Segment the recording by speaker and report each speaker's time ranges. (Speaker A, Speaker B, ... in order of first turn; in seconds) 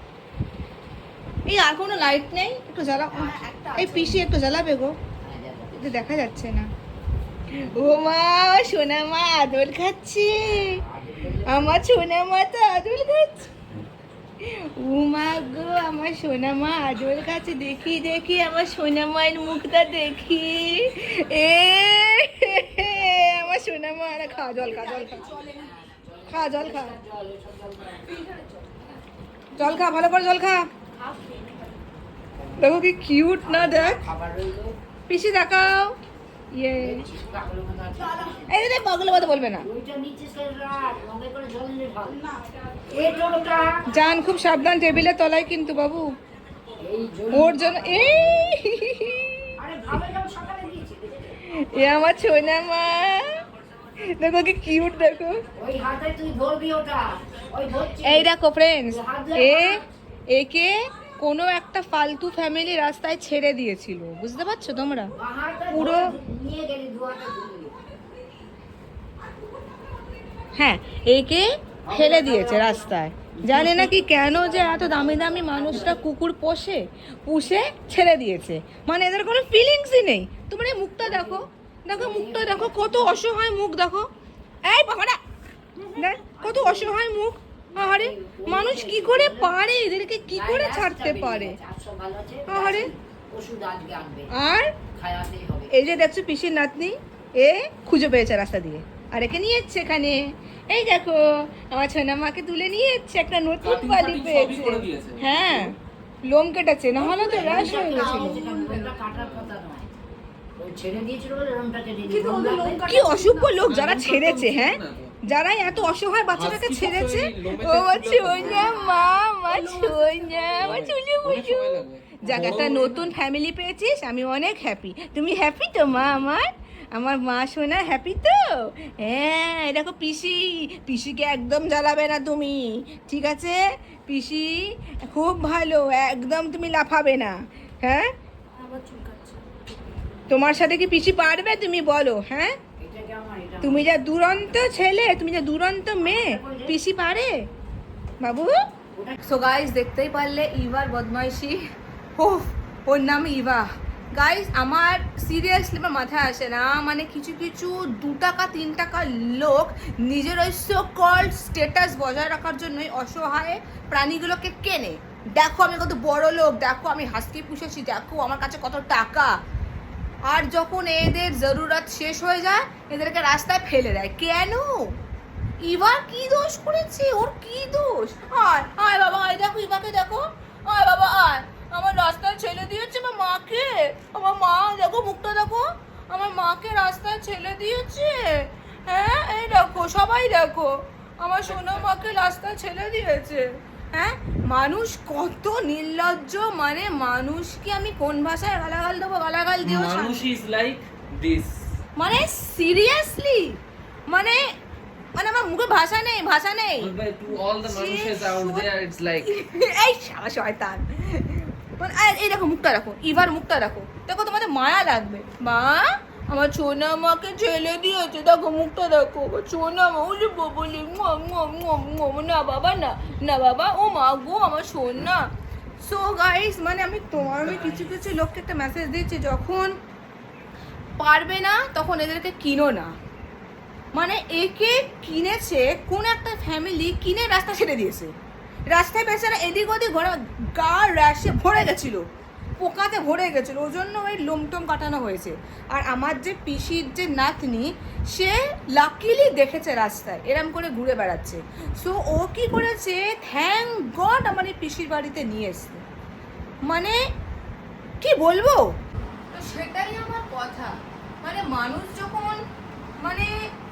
Speaker A: 1.5-5.0, 5.8-6.7, 7.5-10.8, 11.5-13.5, 14.4-25.6, 26.3-27.0, 29.6-30.7, 32.6-34.0, 35.1-36.0, 36.5-37.1, 38.5-39.7, 43.9-46.1, 47.3-49.5, 51.4-53.3, 54.0-55.4, 58.0-65.1, 65.7-66.2, 67.5-68.2, 70.5-84.1, 84.7-85.2, 86.0-91.6, 92.5-92.9, 94.3-94.7, 95.7-108.8, 112.1-139.4, 140.3-142.6, 143.6-147.5, 148.2-148.5, 149.2-151.6, 152.2-169.4, 170.3-174.9, 175.6-200.3, 202.0-204.4, 205.2-206.9, 207.6-208.7, 209.2-225.3, 225.8-229.7, 231.0-232.9, 233.9-238.1, 238.7-242.0, 242.6-255.8, 256.7-257.0, 258.0-258.6, 259.3-262.4, 263.0-263.3
Speaker B: 3.1-4.3, 5.2-6.0, 10.4-11.8, 24.5-28.9, 30.9-31.8, 32.3-34.8, 36.8-38.5, 39.6-42.3, 42.9-43.9, 46.8-48.5, 49.6-51.4, 55.6-58.3, 58.9-59.9, 65.2-67.8, 71.9-76.0, 81.0-81.4, 82.0-83.2, 85.8-87.0, 87.7-89.5, 90.3-94.3, 95.0-96.1, 107.0-110.0, 110.6-113.5, 118.4-119.1, 119.6-120.6, 122.3-122.8, 142.8-143.9, 146.0-146.8, 148.9-149.2, 191.5-192.1
Speaker C: 103.6-105.6, 107.3-109.5, 113.6-115.1, 116.3-118.8, 120.4-123.1, 199.6-201.6, 206.8-209.3, 227.4-227.9